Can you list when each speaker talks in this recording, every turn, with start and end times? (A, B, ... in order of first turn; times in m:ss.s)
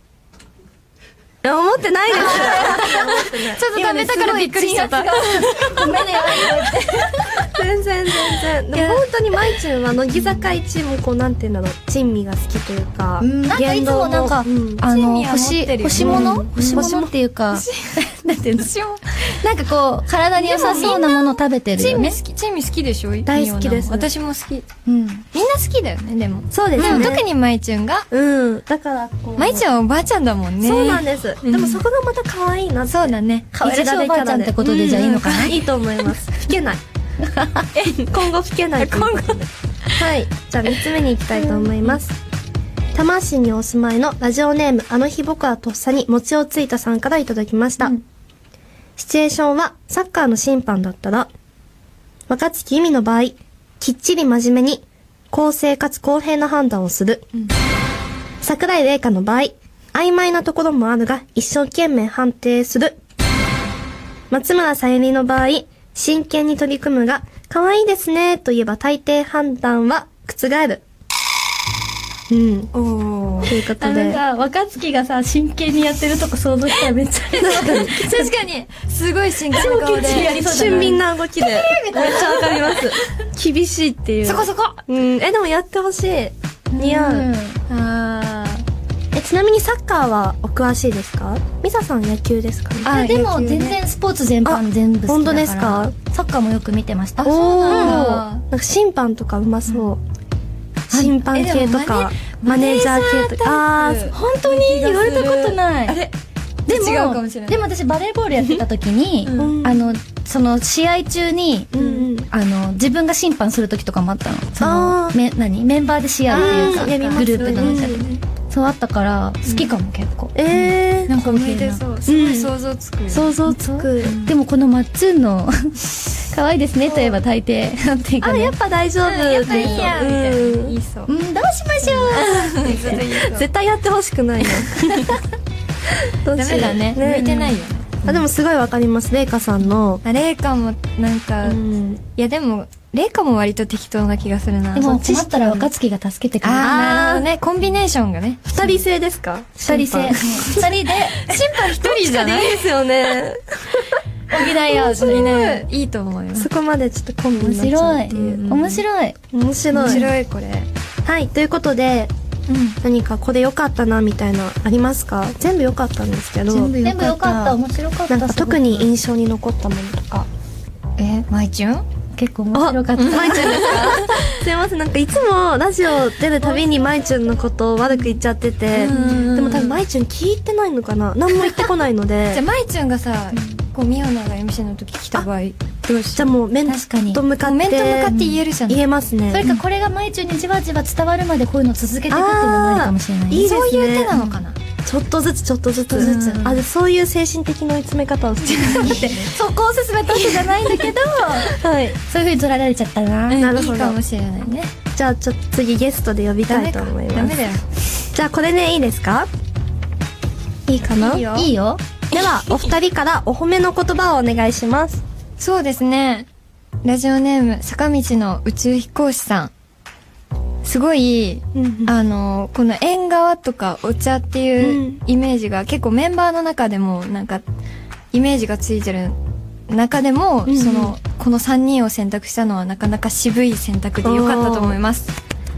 0:01.4-0:04.3 A
0:02.1-0:07.6 B
0:02.1-0:05.8 C
0:07.5-0:14.8 A
0:13.2-0:22.2 B
0:14.8-0:17.0 C
0:16.0-0:17.1 A
0:17.5-0:18.0 C
0:18.5-0:19.2 C
0:20.4-0:24.7 C
0:20.7-0:21.0 A
0:23.3-0:24.1 A
0:24.9-0:25.3 B
0:25.3-0:28.1 C
0:26.5-0:27.3 A
0:26.8-0:27.2 B
0:28.1-0:29.7 A
0:29.4-0:31.8 C
0:30.6-0:36.8 A
0:32.9-0:33.5 C
0:33.5-0:35.6 B
0:34.9-0:35.6 C
0:37.3-0:37.7 B
0:37.8-0:38.0 C
0:38.0-0:42.2 A
0:38.8-0:40.1 C
0:42.9-0:48.0 A
0:49.0-0:51.3 A
0:52.3-0:57.3 A
0:58.4-1:03.0 A
1:04.3-1:10.8 A
1:12.3-1:12.7 A
1:12.7-1:13.5 C
1:13.4-1:14.2 A
1:13.8-1:18.3 B
1:17.4-1:18.0 A
1:17.5-1:20.7 C
1:19.5-1:27.3 A
1:19.6-1:22.7 B
1:21.9-1:22.9 C
1:24.2-1:24.8 C
1:26.7-1:27.6 B
1:27.7-1:28.6 C
1:29.1-1:32.9 A
1:32.8-1:33.8 C
1:32.9-1:38.1 B
1:34.4-1:35.9 A
1:37.2-1:40.0 A
1:37.3-1:38.4 C
1:40.9-1:44.2 A
1:41.3-1:42.9 C
1:42.5-1:46.0 B
1:43.8-1:46.1 C
1:46.7-1:47.6 C
1:46.7-2:01.8 B
1:49.3-1:49.6 C
1:49.3-1:49.9 A
1:51.7-1:52.3 A
1:54.6-1:55.2 A
1:56.3-1:58.0 A
1:56.3-1:58.2 C
2:00.4-2:01.1 A
2:01.1-2:03.4 C
2:02.1-2:02.5 A
2:03.1-2:04.2 A
2:03.5-2:08.6 B
2:04.0-2:04.3 C
2:06.9-2:07.2 A
2:08.2-2:10.8 A
2:09.0-2:11.1 C
2:09.5-2:10.0 B
2:11.1-2:13.0 B
2:11.9-2:13.5 C
2:12.1-2:15.2 A
2:14.6-2:15.2 C
2:16.0-2:20.0 A
2:16.4-2:18.1 C
2:20.0-2:21.6 C
2:21.4-2:22.0 A
2:22.2-2:25.7 C
2:24.8-2:26.8 B
2:26.4-2:28.8 C
2:26.6-2:27.3 A
2:28.5-2:30.7 A
2:29.6-2:31.4 B
2:30.4-2:32.9 C
2:31.7-2:35.7 A
2:34.3-2:35.3 B
2:34.8-2:36.5 C
2:36.3-2:38.6 A
2:37.3-2:39.2 B
2:38.1-2:38.8 C
2:39.3-2:40.1 A
2:39.8-2:40.1 B
2:39.8-2:40.7 C
2:41.0-2:42.1 A
2:42.5-2:42.8 C
2:42.8-2:50.3 A
2:46.5-2:48.9 B
2:51.0-2:51.8 C
2:52.1-2:54.0 B
2:52.5-3:02.4 A
2:53.0-2:54.3 C
2:58.7-2:59.8 C
2:58.8-2:59.3 B
3:02.3-3:06.4 C
3:06.2-3:08.2 A
3:06.7-3:07.2 B
3:07.4-3:08.8 C
3:08.1-3:08.4 B
3:08.7-3:09.4 A
3:09.3-3:13.5 B
3:12.1-3:14.2 A
3:13.3-3:14.6 C
3:14.1-3:14.4 B
3:14.8-3:19.3 A
3:15.9-3:16.6 C
3:16.0-3:16.6 B
3:18.4-3:19.4 C
3:18.8-3:23.4 B
3:20.1-3:21.4 C
3:21.5-3:22.0 A
3:23.3-3:24.7 C
3:23.4-3:24.0 A
3:25.0-3:27.4 A
3:26.5-3:27.7 C
3:28.1-3:29.3 A
3:30.7-3:31.5 A
3:31.2-3:31.8 B
3:32.1-3:35.0 A
3:35.4-3:36.3 C
3:36.8-3:39.5 C
3:40.6-3:47.4 C
3:41.6-3:41.9 A
3:44.6-3:45.0 A
3:48.1-3:49.2 C
3:49.7-3:55.1 C
3:50.5-3:50.9 A
3:54.0-3:54.8 A